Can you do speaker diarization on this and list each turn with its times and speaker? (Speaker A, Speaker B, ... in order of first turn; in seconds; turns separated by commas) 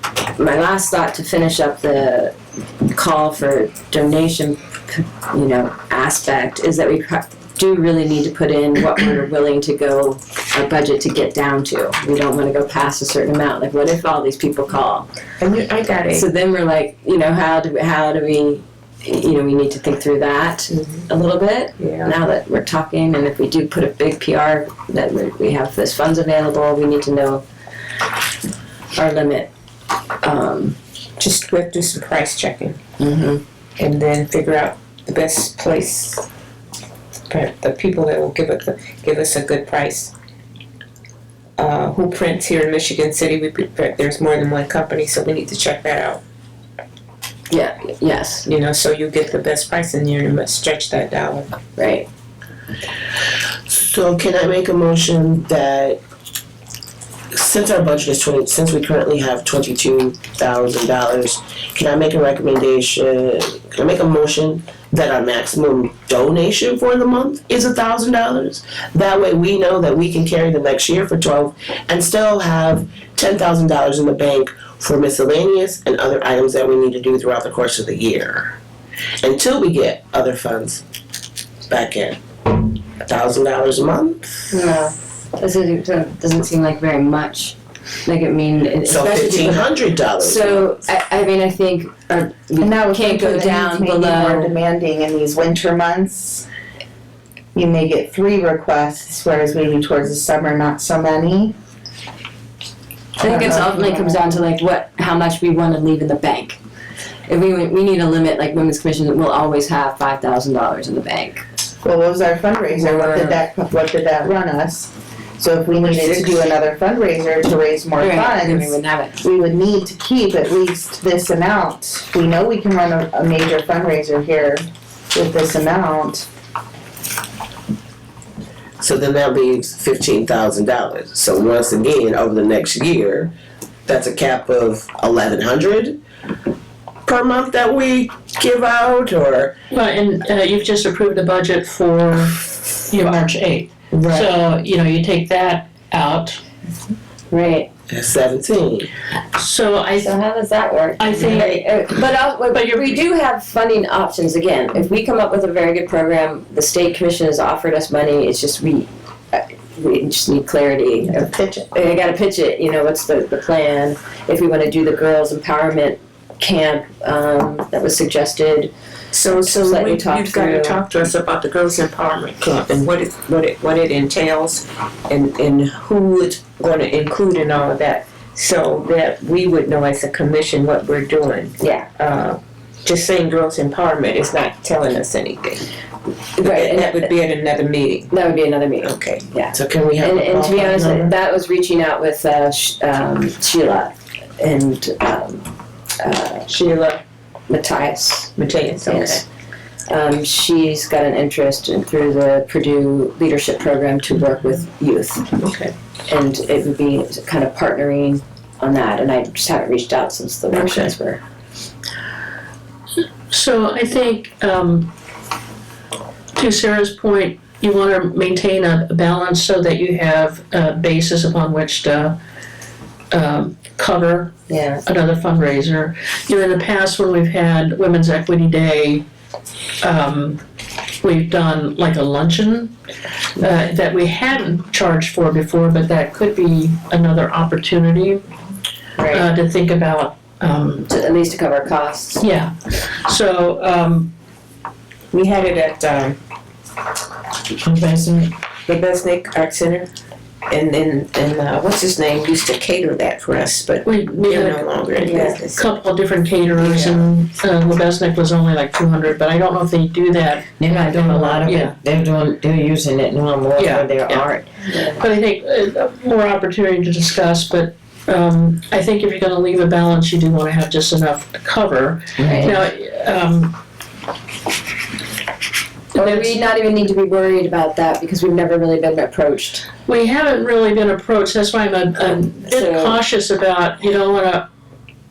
Speaker A: 0.4-2.3, Speaker A: 2.9-15.1, Speaker B: 15.4-16.3, Speaker A: 16.1-27.4, Speaker B: 20.7-21.0, Speaker B: 21.8-22.1, Speaker A: 28.9-29.5, Speaker A: 30.2-30.8, Speaker B: 31.2-32.8, Speaker A: 33.0-33.4, Speaker B: 33.8-36.2, Speaker B: 37.3-40.1, Speaker B: 41.6-46.2, Speaker A: 47.5-48.5, Speaker B: 48.5-51.5, Speaker A: 51.8-52.1, Speaker C: 53.7-56.0, Speaker C: 57.3-78.6, Speaker C: 79.2-80.8, Speaker C: 81.7-84.5, Speaker A: 84.5-94.5, Speaker C: 88.8-90.7, Speaker D: 92.6-96.5, Speaker D: 97.5-101.5, Speaker A: 103.2-106.6, Speaker D: 103.2-104.4, Speaker A: 107.3-111.4, Speaker D: 111.8-126.3, Speaker A: 112.7-113.4, Speaker B: 115.8-116.4, Speaker A: 118.0-119.2, Speaker C: 128.8-133.3, Speaker C: 133.9-136.0, Speaker C: 137.1-139.5, Speaker E: 139.7-146.4, Speaker A: 147.3-147.7, Speaker C: 147.9-148.9, Speaker E: 149.3-150.1, Speaker A: 150.0-168.7, Speaker E: 151.0-151.8, Speaker E: 152.5-153.1, Speaker C: 161.2-161.7, Speaker B: 169.1-185.6, Speaker A: 169.3-170.8, Speaker A: 181.6-181.9, Speaker A: 186.4-187.1, Speaker B: 186.4-188.1, Speaker A: 188.1-195.5, Speaker B: 188.8-189.2, Speaker C: 189.5-191.1, Speaker A: 196.0-196.5, Speaker B: 196.5-197.0, Speaker A: 197.5-199.2, Speaker B: 198.4-199.2, Speaker A: 199.9-205.3, Speaker B: 205.4-205.7, Speaker A: 206.1-211.2, Speaker E: 210.5-210.9, Speaker E: 213.3-214.9, Speaker E: 216.3-222.2, Speaker E: 223.1-224.3, Speaker A: 224.5-224.8, Speaker E: 224.9-229.1, Speaker E: 229.8-230.4, Speaker E: 231.0-232.7, Speaker E: 233.4-238.2, Speaker A: 239.0-239.3, Speaker E: 239.1-240.9, Speaker A: 240.9-242.2, Speaker E: 242.2-244.1, Speaker B: 245.1-246.2, Speaker F: 247.7-248.3, Speaker B: 248.7-249.9, Speaker B: 250.5-255.7, Speaker E: 253.8-254.7, Speaker A: 255.0-255.4, Speaker E: 255.6-260.5, Speaker B: 256.6-257.1, Speaker F: 260.6-264.6, Speaker E: 261.1-261.8, Speaker E: 263.6-264.3, Speaker A: 264.6-265.0, Speaker E: 264.9-273.6, Speaker F: 272.2-272.6, Speaker A: 275.9-279.7, Speaker E: 276.0-276.4, Speaker E: 279.9-284.5, Speaker A: 282.5-283.0